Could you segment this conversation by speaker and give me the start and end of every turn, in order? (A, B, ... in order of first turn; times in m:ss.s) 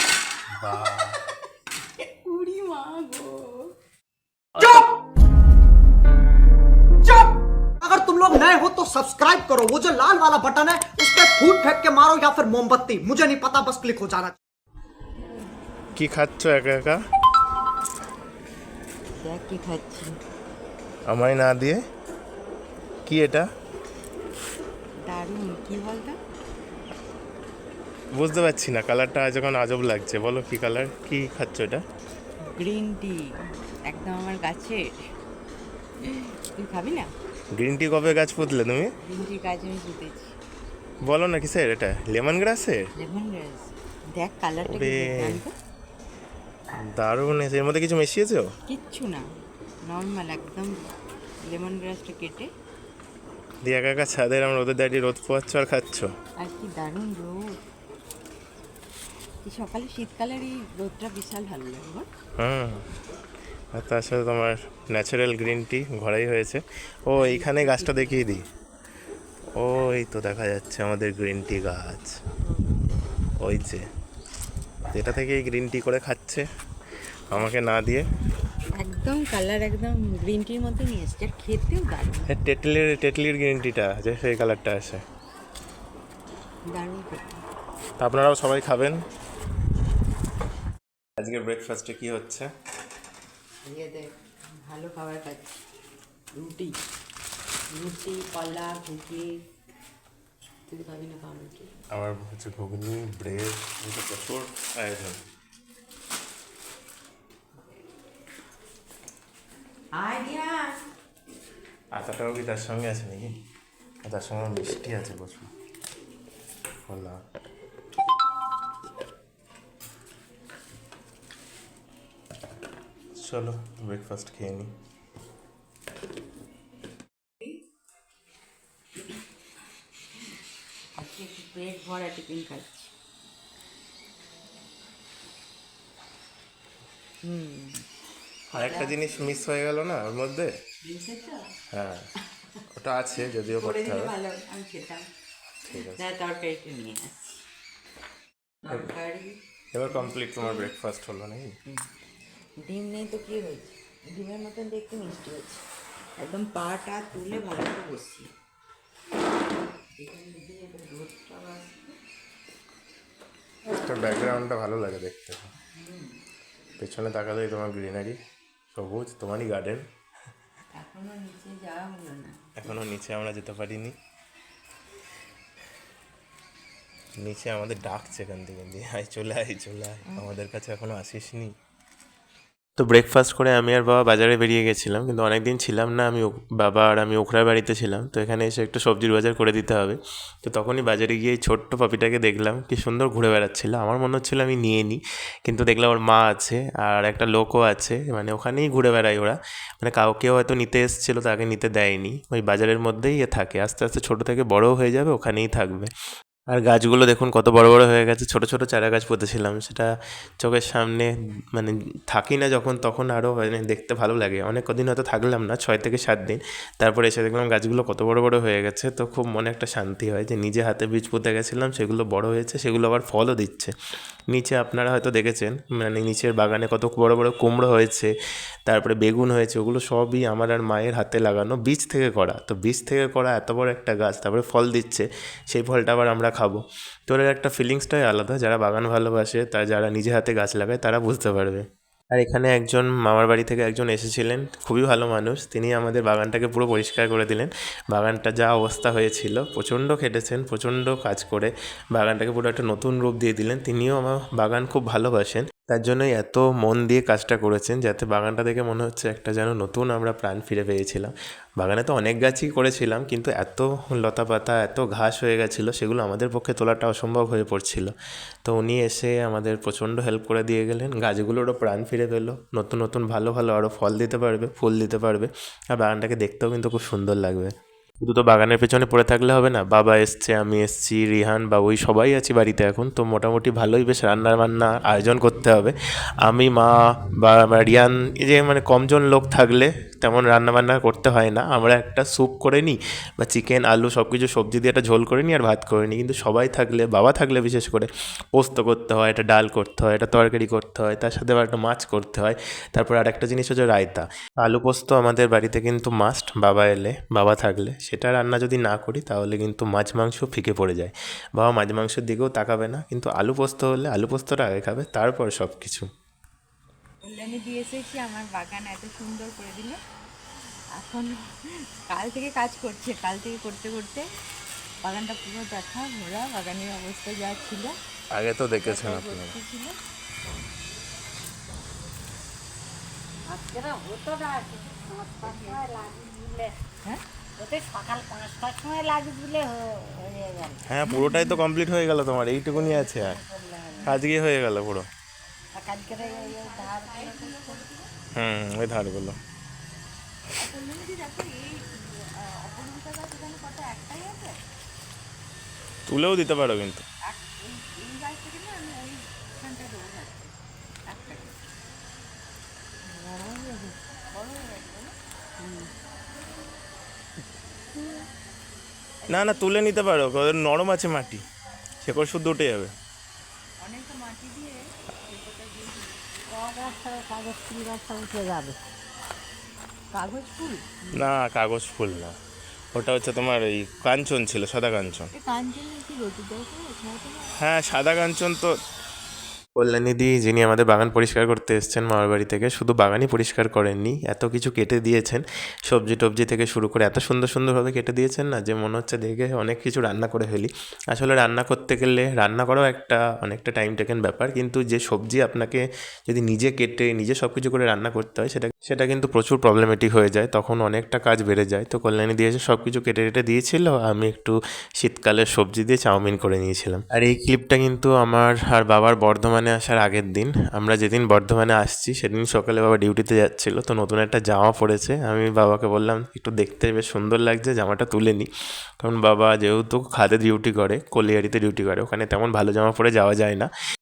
0:00.6-0:01.2 A
0:02.0-0:03.7 B
0:04.6-0:05.0 C
0:07.0-0:14.4 C
0:15.9-0:17.0 A
0:19.2-0:20.2 B
0:21.1-0:21.8 A
0:23.0-0:23.5 A
0:25.0-0:26.2 B
0:28.1-0:31.8 A
0:32.4-0:35.0 B
0:36.0-0:37.1 B
0:37.5-0:38.9 A
0:39.0-0:40.3 B
0:41.0-0:42.9 A
0:43.0-0:45.5 B
0:44.6-0:45.4 A
0:46.7-0:48.5 A
0:48.7-0:49.3 B
0:49.8-0:50.9 B
0:51.4-0:52.5 B
0:53.6-0:56.1 A
0:56.4-0:57.6 B
0:59.4-1:02.1 B
1:02.4-1:02.9 A
1:03.7-1:08.4 A
1:07.1-1:08.3 B
1:09.6-1:12.2 A
1:12.4-1:13.0 B
1:13.4-1:13.9 A
1:14.9-1:16.5 A
1:17.3-1:18.1 A
1:18.8-1:22.3 B
1:22.3-1:25.0 A
1:26.7-1:27.4 B
1:28.0-1:29.0 A
1:31.2-1:32.5 A
1:33.7-1:34.1 B
1:34.6-1:35.6 B
1:36.4-1:36.8 B
1:37.7-1:39.3 B
1:40.7-1:41.7 B
1:41.9-1:45.2 A
1:50.0-1:50.8 B
1:51.9-1:53.3 A
1:54.0-1:55.5 A
1:56.8-1:57.2 A
2:03.2-2:04.7 A
2:11.0-2:12.9 B
2:17.2-2:17.8 B
2:18.5-2:19.4 B
2:18.5-2:20.6 A
2:20.8-2:21.5 B
2:21.7-2:22.0 A
2:22.7-2:24.1 A
2:23.4-2:25.1 B
2:25.6-2:26.0 A
2:25.7-2:27.4 B
2:28.6-2:30.7 B
2:29.7-2:31.6 A
2:32.6-2:35.6 B
2:36.2-2:38.3 B
2:39.8-2:42.0 B
2:43.7-2:45.5 A
2:45.8-2:46.2 B
2:46.8-2:48.2 A
2:48.7-2:49.8 A
2:50.7-2:52.8 B
2:52.6-2:54.0 A
2:57.2-3:01.5 A
3:02.8-3:25.9 A
3:26.5-3:43.7 A
3:44.3-3:48.1 A
3:48.7-4:27.9 A
4:28.4-5:15.9 A
5:17.0-5:19.8 B
5:20.7-5:24.0 B
5:24.8-5:27.8 B
5:28.1-5:29.4 A
5:28.6-5:29.8 B
5:33.3-5:36.5 D
5:35.3-5:35.6 B
5:37.4-5:40.6 D
5:40.6-5:43.2 A
5:40.9-5:41.4 B
5:42.5-5:43.8 D
5:43.7-5:44.0 B
5:43.8-5:44.9 A
5:45.6-5:47.6 D
5:45.8-5:47.9 B
5:48.1-5:49.2 A
5:50.3-5:54.4 B
5:55.8-5:56.8 A
5:57.0-6:00.3 B
6:00.8-6:01.4 B
6:04.1-6:05.7 B
6:09.1-6:09.4 B
6:09.1-6:11.2 A
6:11.8-6:12.7 A
6:13.6-6:16.4 B
6:16.3-6:18.6 D
6:19.9-6:21.0 B
6:20.9-6:22.2 A
6:22.7-6:25.1 A
6:25.1-6:27.3 B
6:27.4-6:28.5 A
6:29.6-7:08.3 A
7:08.8-7:13.5 A